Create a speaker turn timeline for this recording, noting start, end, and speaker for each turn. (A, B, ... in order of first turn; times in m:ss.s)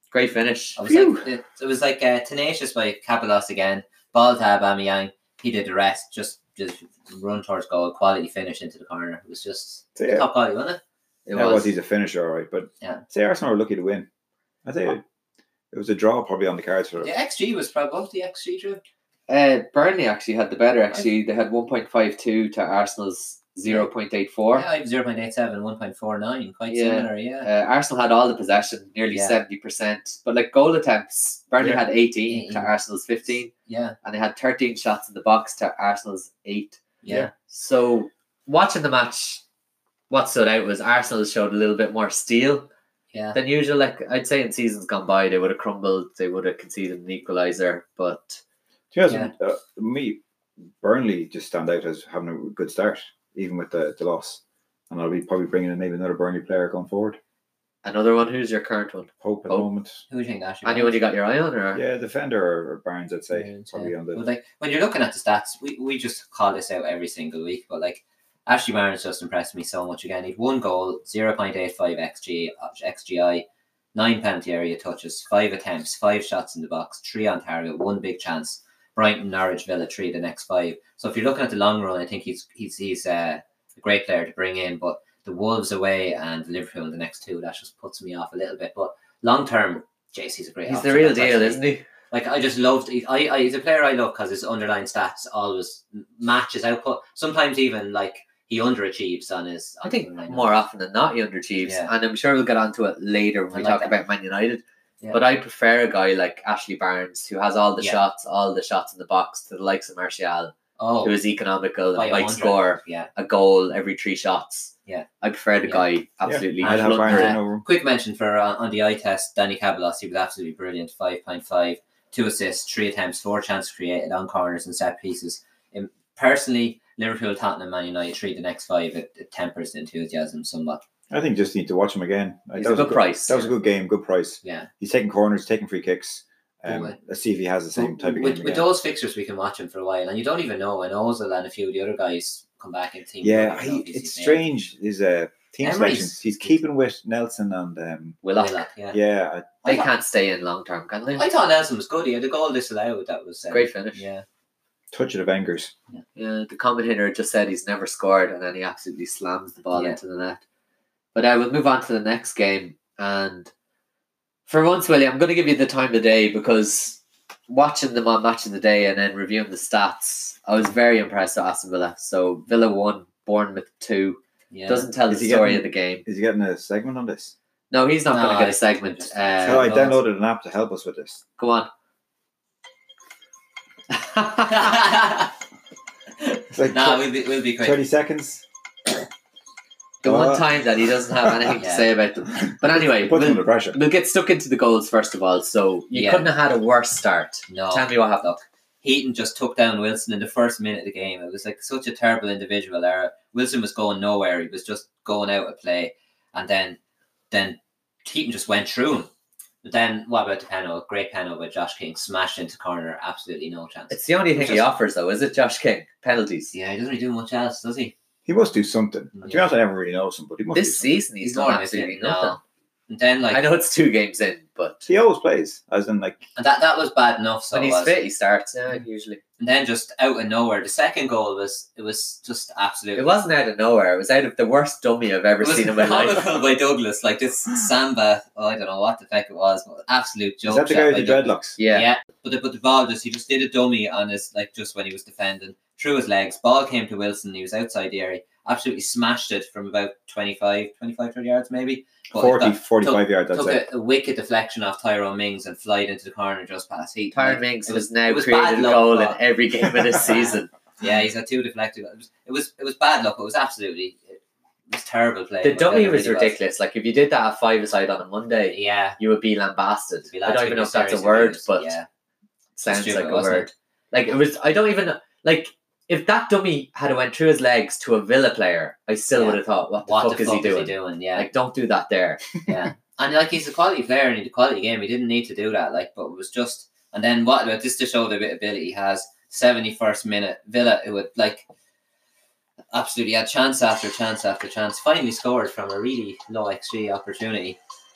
0:00.1-0:01.2 A
0:00.8-0:10.8 B
0:10.0-0:10.3 C
0:11.3-0:11.7 A
0:11.3-0:14.1 C
0:14.6-0:15.0 C
0:15.7-0:17.1 C
0:17.0-0:18.8 B
0:19.3-0:24.7 A
0:24.5-0:27.5 B
0:26.7-0:33.5 A
0:29.1-0:29.4 B
0:32.3-0:32.7 B
0:33.7-0:34.0 B
0:34.0-0:39.4 A
0:37.0-0:37.3 B
0:40.1-0:42.7 A
0:43.1-0:43.4 B
0:43.3-0:48.4 A
0:48.9-0:50.2 C
0:50.8-0:57.2 C
0:57.8-0:59.7 A
0:59.2-1:00.0 C
1:00.1-1:01.0 B
1:00.6-1:01.8 A
1:01.7-1:04.2 C
1:03.3-1:31.6 B
1:30.7-1:31.8 A
1:32.1-1:40.6 B
1:39.8-1:57.4 A
1:41.6-1:41.9 B
1:43.5-1:43.9 B
1:50.8-1:51.2 B
1:52.0-1:53.1 B
1:56.2-1:57.6 C
1:56.6-2:10.8 B
2:11.1-2:18.7 C
2:12.6-2:13.5 A
2:14.4-2:14.7 B
2:16.7-2:17.0 B
2:17.8-2:24.4 B
2:23.2-2:28.2 C
2:25.6-2:26.6 B
2:28.2-2:28.6 A
2:28.4-2:29.0 B
2:28.9-2:29.6 C
2:29.6-2:31.2 A
2:31.1-2:34.2 B
2:33.5-2:34.0 A
2:34.9-2:35.7 C
2:36.2-2:40.4 A
2:39.7-2:40.0 B
2:41.2-2:43.5 A
2:44.5-2:56.0 A
2:54.5-2:54.9 B
2:55.1-2:57.3 C
2:57.7-2:59.9 A
2:58.1-3:00.0 B
2:59.4-3:01.2 C
3:01.4-3:01.7 A
3:03.9-3:04.8 A
3:04.5-3:05.3 B
3:06.2-3:07.8 B
3:06.5-3:07.1 C
3:07.6-3:08.4 C
3:10.0-3:18.4 A
3:10.0-3:10.5 C
3:11.2-3:11.6 C
3:11.6-3:11.9 B
3:12.4-3:13.8 C
3:15.9-3:16.3 B
3:17.5-3:17.9 B
3:18.8-3:26.8 B
3:27.3-3:29.1 B
3:29.6-3:34.7 B
3:33.9-3:36.5 A
3:36.5-3:37.9 B
3:38.3-3:41.0 C
3:39.2-3:39.5 B
3:40.5-3:42.4 A
3:41.2-3:43.4 B
3:43.3-3:44.9 A
3:44.9-3:46.2 C
3:46.4-3:48.0 B
3:47.5-3:49.2 A
3:49.4-3:53.1 B
3:53.0-3:56.4 A
3:55.4-4:19.2 B
4:00.4-4:01.6 C
4:01.6-4:01.9 A
4:12.1-4:13.6 C
4:17.1-4:20.5 A
4:20.0-4:24.2 B
4:24.7-4:26.4 B
4:25.4-4:31.8 A
4:28.5-4:29.0 B
4:30.1-4:31.9 B
4:32.6-4:42.3 A
4:32.6-4:33.5 B
4:39.1-4:41.3 B
4:42.4-4:51.5 B
4:52.7-4:57.6 B